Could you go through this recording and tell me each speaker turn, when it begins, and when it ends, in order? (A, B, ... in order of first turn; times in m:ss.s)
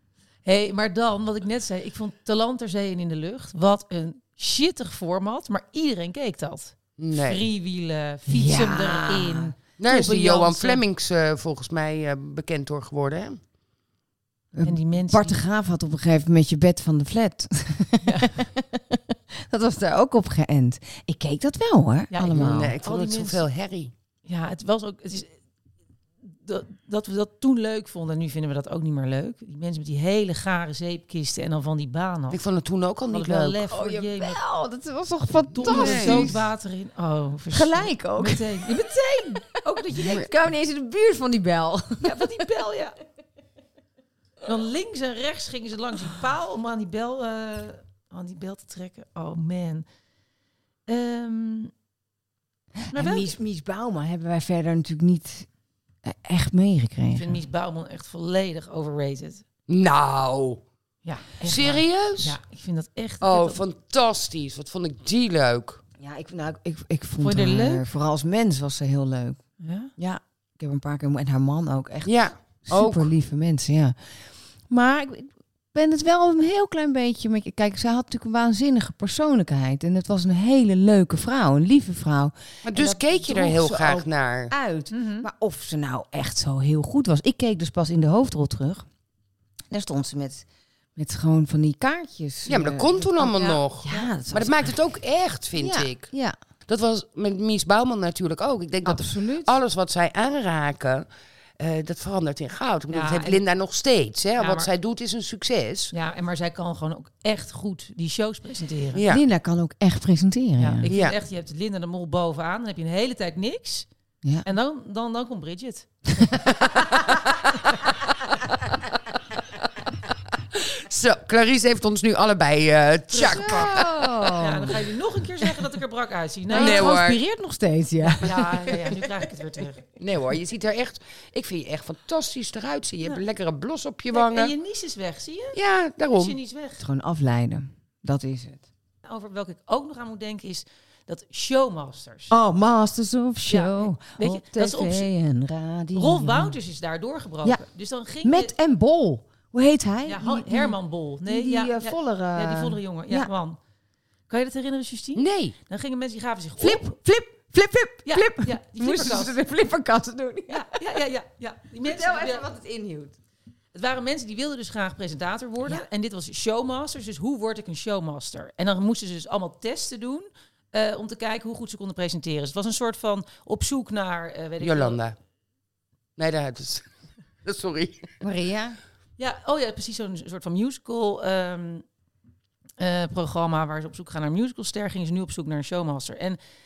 0:00.4-0:10.8 A
0:07.0-0:07.4 B
0:08.3-0:09.5 C
0:09.8-0:13.4 B
0:14.6-0:22.8 C
0:14.6-0:15.4 A
0:18.0-0:18.4 A
0:22.1-0:23.4 A
0:22.3-0:23.9 B
0:24.3-0:25.4 A
0:26.2-0:32.4 A
0:32.3-0:33.6 B
0:33.1-0:34.4 A
0:33.7-0:36.5 C
0:35.6-0:40.3 A
0:35.6-0:36.3 B
0:37.5-0:38.8 C
0:39.7-0:42.3 C
0:42.0-0:43.0 A
0:44.4-0:49.9 A
0:50.9-0:51.7 A
0:52.8-0:55.5 C
0:52.9-0:53.3 A
0:56.0-0:57.4 C
0:57.2-0:59.4 A
0:59.7-1:00.6 B
1:01.0-1:03.6 A
1:01.4-1:02.4 B
1:03.2-1:05.8 B
1:06.0-1:09.4 C
1:07.2-1:07.8 A
1:09.6-1:09.9 A
1:10.0-1:28.9 C
1:12.0-1:13.1 B
1:22.6-1:24.5 B
1:24.9-1:25.3 A
1:29.7-1:33.1 C
1:32.5-1:36.1 B
1:33.2-1:34.1 A
1:33.8-1:34.7 C
1:35.6-1:36.4 C
1:36.7-1:41.1 B
1:38.8-1:39.6 C
1:41.6-1:45.9 B
1:42.9-1:43.4 A
1:44.4-1:44.7 A
1:45.9-1:49.0 A
1:48.9-1:49.2 B
1:49.1-1:50.9 C
1:50.6-1:53.9 A
1:50.9-1:51.2 B
1:54.4-1:56.4 A
2:00.8-2:03.9 B
2:03.1-2:03.8 A
2:03.2-2:04.8 C
2:04.4-2:06.9 A
2:06.5-2:09.0 C
2:06.5-2:07.2 B
2:08.0-2:09.8 A
2:10.0-2:14.5 B
2:14.1-2:15.6 A
2:15.5-2:16.4 B
2:16.1-2:16.8 A
2:16.8-2:18.6 C
2:19.0-2:22.3 A
2:22.3-2:26.6 C
2:23.5-2:25.1 A
2:26.0-2:28.5 A
2:28.2-2:33.3 C
2:30.1-2:33.6 A
2:34.3-2:37.0 A
2:35.2-2:35.6 B
2:36.6-2:40.8 C
2:38.0-2:39.4 A
2:40.5-2:42.4 A
2:41.8-2:43.2 C
2:43.7-2:55.0 A
2:54.6-2:55.2 B
2:56.2-2:56.9 B
2:57.4-2:58.2 B
2:58.2-2:58.8 C
2:59.2-3:01.9 A
3:02.8-3:06.4 A